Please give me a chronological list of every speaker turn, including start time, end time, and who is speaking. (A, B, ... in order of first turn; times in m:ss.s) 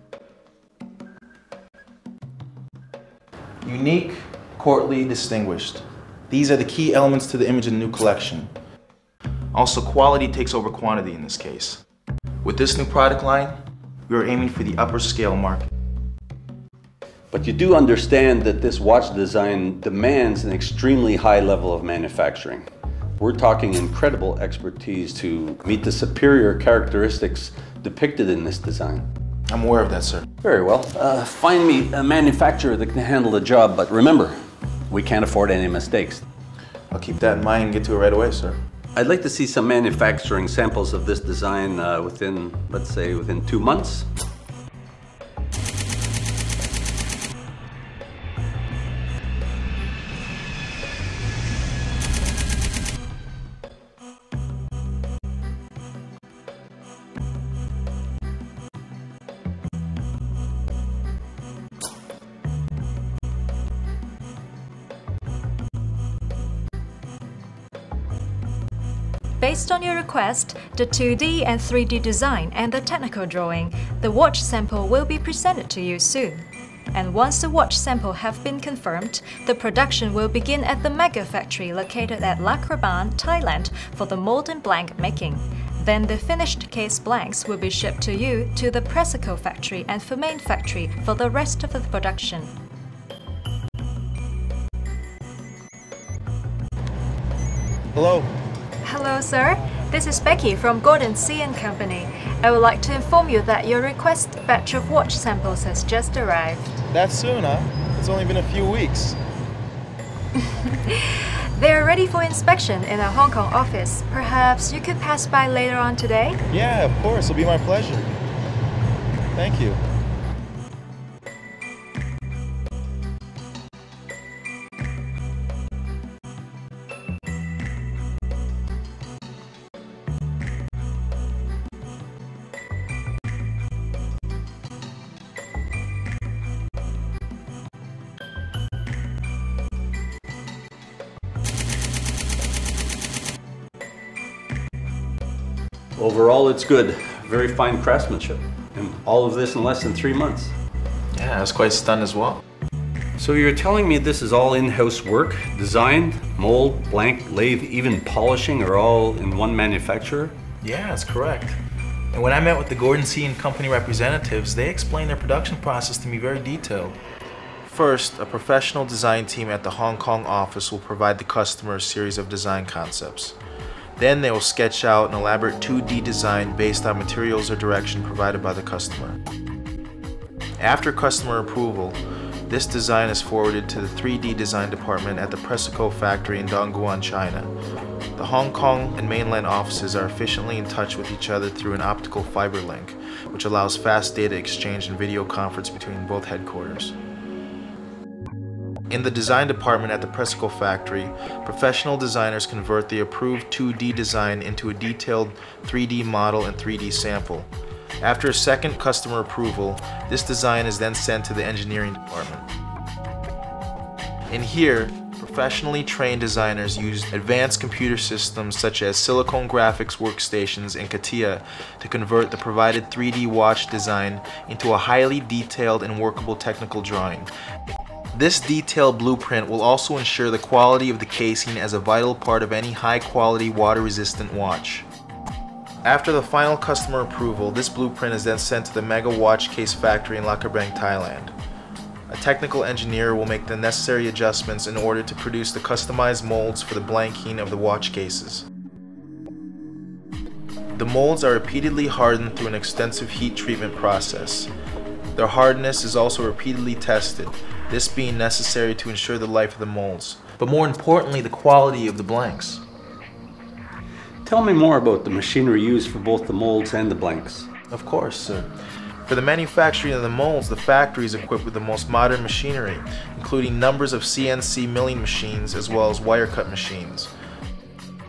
0:03.6-0:08.5 A
0:09.5-0:11.8 A
0:12.4-0:15.7 A
0:17.3-0:22.7 B
0:23.2-0:29.1 B
0:29.5-0:30.3 A
0:30.4-0:34.4 B
0:34.9-0:36.2 B
0:36.9-0:38.6 A
0:38.9-0:44.1 B
1:09.4-1:32.5 C
1:37.9-1:38.3 A
1:38.8-1:46.8 C
1:46.9-1:49.2 A
1:50.4-1:56.4 C
1:56.5-1:58.2 A
1:59.3-1:59.8 A
2:26.0-2:30.5 B
2:31.1-2:32.4 A
2:33.2-2:40.4 B
2:40.6-2:41.6 A
2:42.1-2:47.0 A
2:47.6-2:53.4 A
2:54.0-2:59.2 A
3:00.6-3:07.5 A
3:08.2-3:16.9 A
3:18.9-3:27.5 A
3:28.0-3:32.5 A
3:34.3-3:47.3 A
3:48.1-3:54.9 A
3:55.8-4:01.3 A
4:02.1-4:08.4 A
4:10.8-4:14.5 A
4:15.2-4:22.6 A
4:24.2-4:27.5 B
4:27.7-4:28.5 A
4:29.0-4:37.1 A